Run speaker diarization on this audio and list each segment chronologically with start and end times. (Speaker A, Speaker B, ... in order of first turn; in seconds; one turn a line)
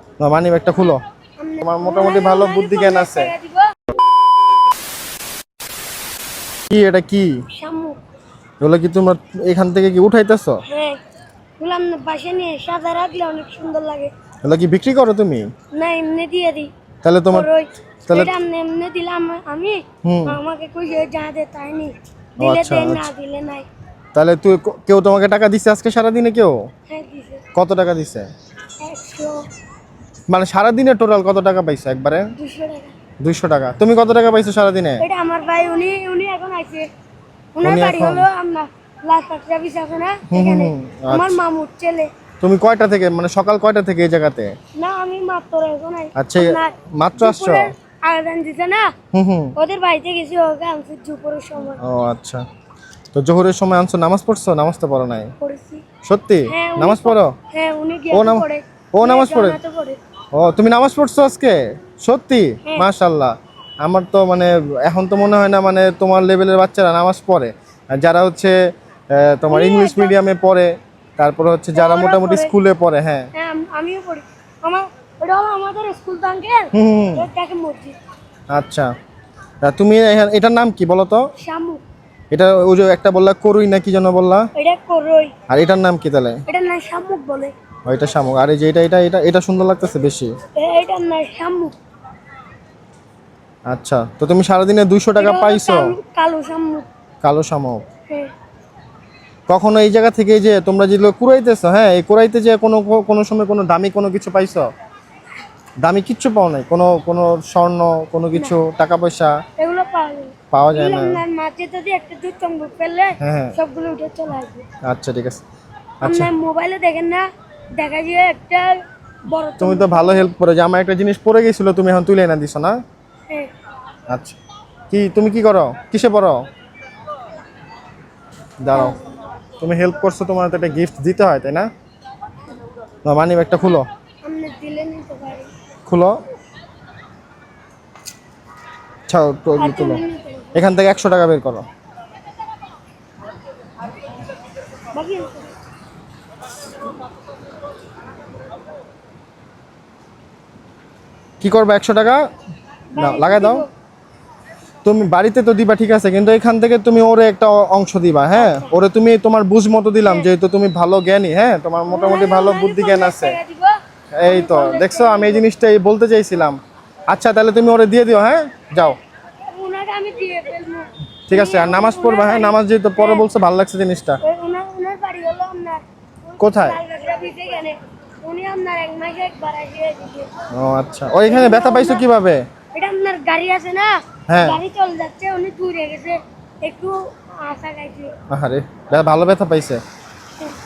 Speaker A: 0.2-1.0
Speaker B: 1.4-3.7
Speaker A: 1.6-3.3
Speaker A: 6.7-7.4
Speaker B: 7.5-8.0
Speaker A: 8.6-10.6
Speaker B: 10.7-11.0
Speaker B: 11.6-14.1
Speaker A: 14.4-15.5
Speaker B: 15.7-16.7
Speaker A: 17.0-17.5
Speaker B: 17.3-23.6
Speaker A: 20.0-20.4
Speaker A: 22.4-23.1
Speaker A: 24.1-26.6
Speaker B: 26.9-27.4
Speaker A: 27.5-28.3
Speaker B: 28.8-29.4
Speaker A: 30.3-32.3
Speaker B: 32.4-32.9
Speaker A: 33.2-35.0
Speaker B: 35.0-36.9
Speaker B: 37.5-42.1
Speaker A: 37.6-38.3
Speaker A: 40.3-41.4
Speaker A: 42.4-44.5
Speaker B: 44.8-48.9
Speaker A: 46.1-47.7
Speaker A: 49.1-49.5
Speaker B: 49.5-51.8
Speaker A: 51.8-52.4
Speaker A: 53.1-55.3
Speaker B: 55.4-55.8
Speaker A: 56.0-57.3
Speaker B: 56.5-60.0
Speaker A: 58.1-59.6
Speaker A: 60.3-68.5
Speaker A: 69.1-73.3
Speaker B: 69.5-70.2
Speaker B: 71.7-72.5
Speaker B: 73.3-78.0
Speaker A: 76.7-77.2
Speaker A: 78.5-78.9
Speaker A: 79.6-81.3
Speaker B: 81.4-81.8
Speaker A: 82.3-84.5
Speaker B: 84.5-85.3
Speaker A: 85.5-86.4
Speaker B: 86.5-87.5
Speaker A: 87.8-90.3
Speaker B: 90.5-91.8
Speaker A: 93.7-95.9
Speaker B: 95.2-96.9
Speaker A: 97.2-97.8
Speaker A: 99.5-104.7
Speaker A: 105.8-109.4
Speaker B: 109.6-114.6
Speaker A: 110.5-111.2
Speaker A: 113.2-113.6
Speaker A: 114.8-115.4
Speaker A: 116.0-116.3
Speaker B: 116.0-117.2
Speaker B: 117.8-120.3
Speaker A: 119.6-122.8
Speaker A: 124.1-124.4
Speaker A: 124.9-126.5
Speaker A: 128.6-129.0
Speaker B: 128.7-129.2
Speaker A: 129.6-131.7
Speaker A: 133.0-133.9
Speaker B: 134.2-135.5
Speaker A: 135.8-136.2
Speaker A: 139.1-140.0
Speaker B: 139.6-140.6
Speaker A: 140.5-141.7
Speaker B: 144.9-145.5
Speaker A: 151.4-152.2
Speaker B: 152.9-153.7
Speaker A: 152.9-153.6
Speaker A: 154.8-163.4
Speaker B: 158.3-158.7
Speaker B: 160.0-160.3
Speaker B: 161.9-165.4
Speaker A: 164.1-166.6
Speaker A: 167.1-169.0
Speaker B: 169.5-173.3
Speaker A: 171.3-174.2
Speaker B: 174.2-180.3
Speaker A: 176.4-176.8
Speaker A: 180.5-182.4
Speaker B: 181.2-182.1
Speaker B: 182.7-188.1
Speaker A: 184.3-184.6
Speaker A: 188.3-189.8